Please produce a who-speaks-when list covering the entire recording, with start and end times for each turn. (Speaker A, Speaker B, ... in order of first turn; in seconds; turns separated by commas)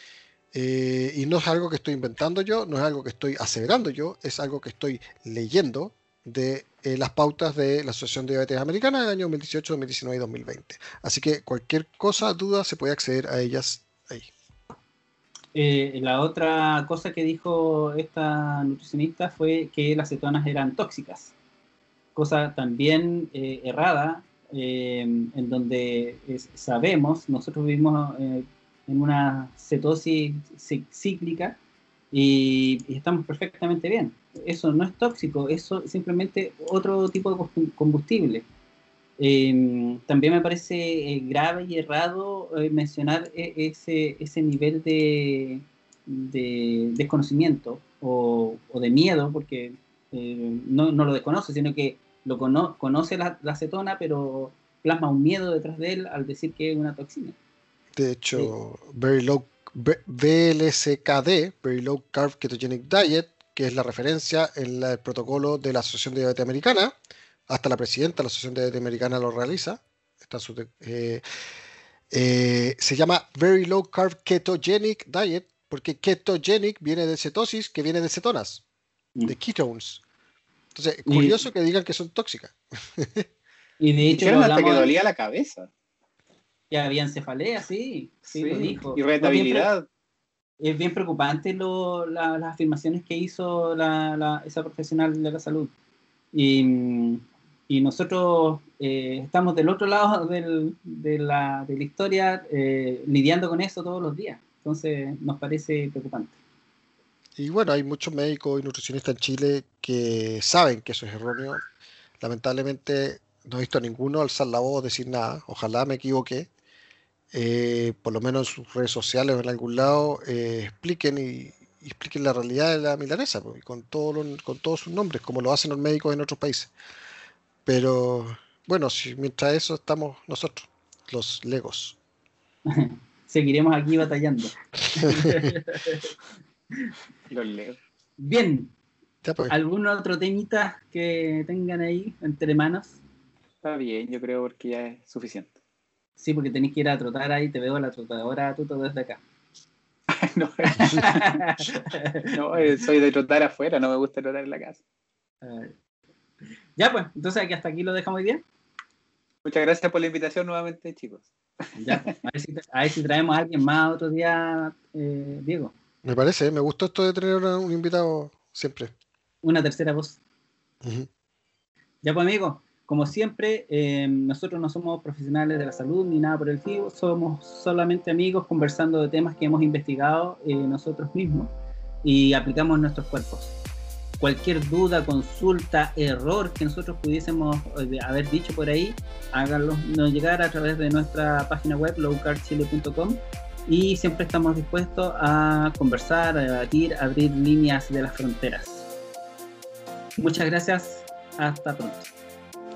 Speaker A: 0.5-14.3, Speaker B: 15.5-21.3, Speaker B: 22.1-31.6, Speaker B: 32.1-38.5, Speaker B: 39.2-57.4, Speaker A: 58.0-67.0, Speaker A: 67.5-71.2, Speaker A: 72.1-78.6, Speaker A: 79.3-80.0, Speaker A: 80.8-83.3, Speaker B: 81.0-81.4, Speaker B: 83.8-84.9, Speaker C: 84.1-85.7, Speaker B: 86.7-89.7, Speaker C: 88.3-89.9, Speaker B: 90.6-95.7, Speaker B: 96.3-106.4, Speaker A: 107.4-111.6, Speaker A: 112.2-116.5, Speaker A: 117.3-126.7, Speaker A: 127.7-132.0, Speaker B: 132.7-136.1, Speaker A: 135.0-135.6, Speaker C: 137.3-137.8, Speaker B: 138.2-138.7, Speaker A: 139.2-139.5, Speaker B: 139.5-143.0, Speaker C: 143.6-145.6, Speaker B: 146.2-149.2, Speaker C: 150.1-154.8, Speaker B: 150.8-152.3, Speaker B: 155.4-155.8, Speaker B: 156.8-158.4, Speaker C: 159.4-161.3, Speaker B: 161.8-165.7, Speaker A: 166.0-168.9, Speaker B: 169.4-170.2, Speaker A: 170.8-171.1, Speaker B: 172.0-181.5, Speaker B: 182.0-183.6, Speaker B: 184.2-198.9, Speaker B: 200.2-202.1